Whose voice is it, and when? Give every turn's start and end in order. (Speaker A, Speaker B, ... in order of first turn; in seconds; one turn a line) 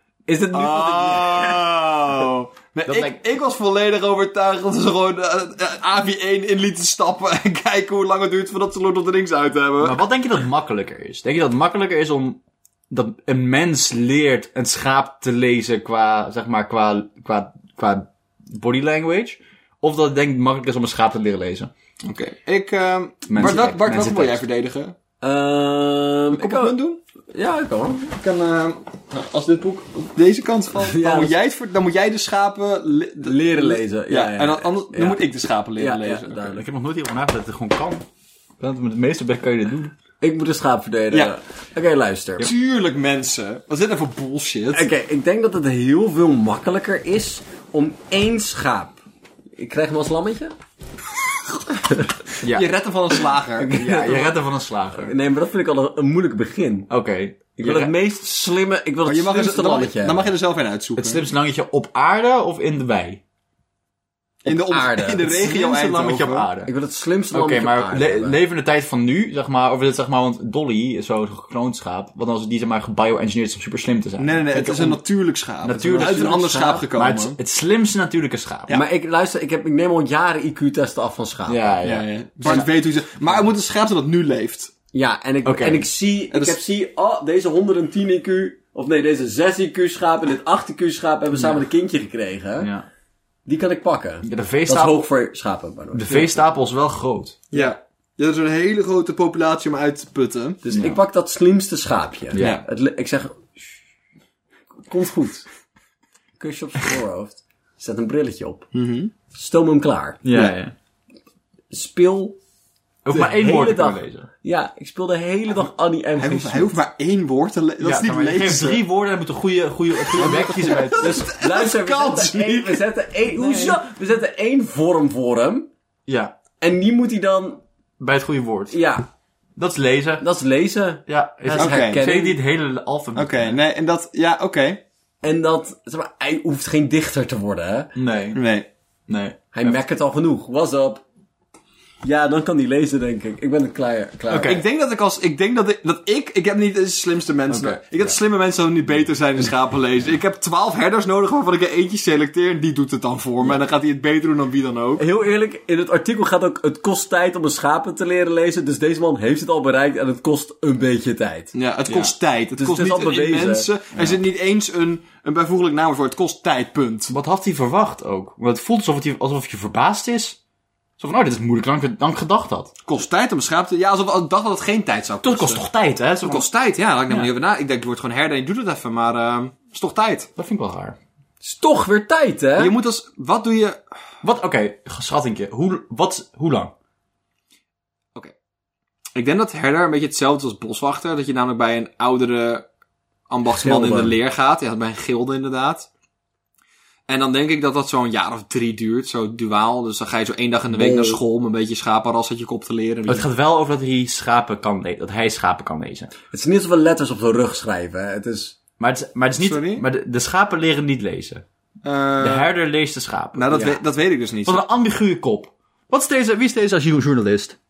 Speaker A: 0.3-1.7
Speaker B: 0.5-10.0
Speaker C: 2.9-3.2
Speaker C: 9.8-21.7
Speaker B: 22.0-24.9
Speaker C: 23.3-24.4
Speaker A: 25.2-26.7
Speaker B: 26.3-27.0
Speaker A: 27.3-28.1
Speaker B: 28.1-36.6
Speaker A: 30.8-31.4
Speaker A: 33.2-35.2
Speaker A: 35.8-36.6
Speaker C: 36.4-38.0
Speaker C: 38.6-39.9
Speaker A: 40.2-42.5
Speaker B: 42.4-44.9
Speaker A: 44.7-49.0
Speaker A: 49.5-50.5
Speaker B: 52.4-53.8
Speaker C: 52.4-52.7
Speaker A: 53.6-54.4
Speaker C: 53.7-55.1
Speaker A: 55.0-56.9
Speaker C: 56.9-57.9
Speaker A: 57.6-60.3
Speaker B: 59.0-61.2
Speaker C: 61.0-63.2
Speaker B: 64.4-66.5
Speaker A: 64.5-65.3
Speaker C: 65.2-66.7
Speaker A: 66.7-68.4
Speaker C: 67.3-75.0
Speaker B: 74.2-77.4
Speaker C: 75.6-78.7
Speaker A: 75.9-76.5
Speaker A: 78.7-81.7
Speaker C: 81.5-82.7
Speaker B: 81.8-84.7
Speaker A: 84.9-92.7
Speaker C: 85.4-85.9
Speaker B: 86.3-86.6
Speaker C: 91.3-91.6
Speaker C: 92.6-92.8
Speaker A: 93.5-96.3
Speaker C: 94.2-95.1
Speaker C: 95.9-97.4
Speaker B: 97.5-100.6
Speaker A: 100.6-103.6
Speaker C: 100.7-101.0
Speaker C: 102.3-102.6
Speaker B: 102.3-102.6
Speaker A: 104.9-105.5
Speaker A: 106.4-108.7
Speaker B: 108.7-109.1
Speaker A: 109.3-110.6
Speaker C: 110.2-110.7
Speaker A: 111.7-112.4
Speaker C: 113.0-114.3
Speaker A: 113.1-116.8
Speaker B: 116.2-118.8
Speaker C: 117.8-121.2
Speaker A: 120.1-125.7
Speaker B: 120.2-122.9
Speaker B: 123.4-123.7
Speaker C: 126.0-126.3
Speaker A: 126.6-127.6
Speaker C: 128.0-128.8
Speaker A: 128.7-129.1
Speaker C: 129.6-130.2
Speaker A: 130.2-132.4
Speaker C: 131.1-133.6
Speaker B: 131.5-132.0
Speaker B: 133.1-134.8
Speaker A: 135.2-137.9
Speaker C: 137.9-138.4
Speaker B: 138.3-138.7
Speaker C: 139.1-139.8
Speaker A: 139.5-141.0
Speaker A: 142.0-144.6
Speaker B: 144.3-155.0
Speaker C: 144.3-144.6
Speaker A: 155.0-161.5
Speaker B: 161.5-167.1
Speaker C: 161.9-162.1
Speaker A: 162.6-163.7
Speaker C: 167.1-170.4
Speaker C: 171.0-172.7
Speaker B: 172.8-175.6
Speaker C: 175.2-176.5
Speaker B: 176.2-180.3
Speaker C: 180.4-180.9
Speaker A: 181.4-182.8
Speaker B: 182.6-183.8
Speaker C: 184.2-186.7
Speaker B: 189.1-192.6
Speaker B: 193.3-195.9
Speaker A: 193.5-194.2
Speaker B: 197.1-203.3
Speaker A: 200.7-201.2
Speaker C: 203.1-206.1
Speaker A: 206.3-208.6
Speaker C: 208.8-211.4
Speaker B: 209.3-209.8
Speaker B: 211.8-212.5
Speaker C: 212.2-213.5
Speaker B: 213.3-214.7
Speaker A: 213.5-213.8
Speaker C: 214.4-217.6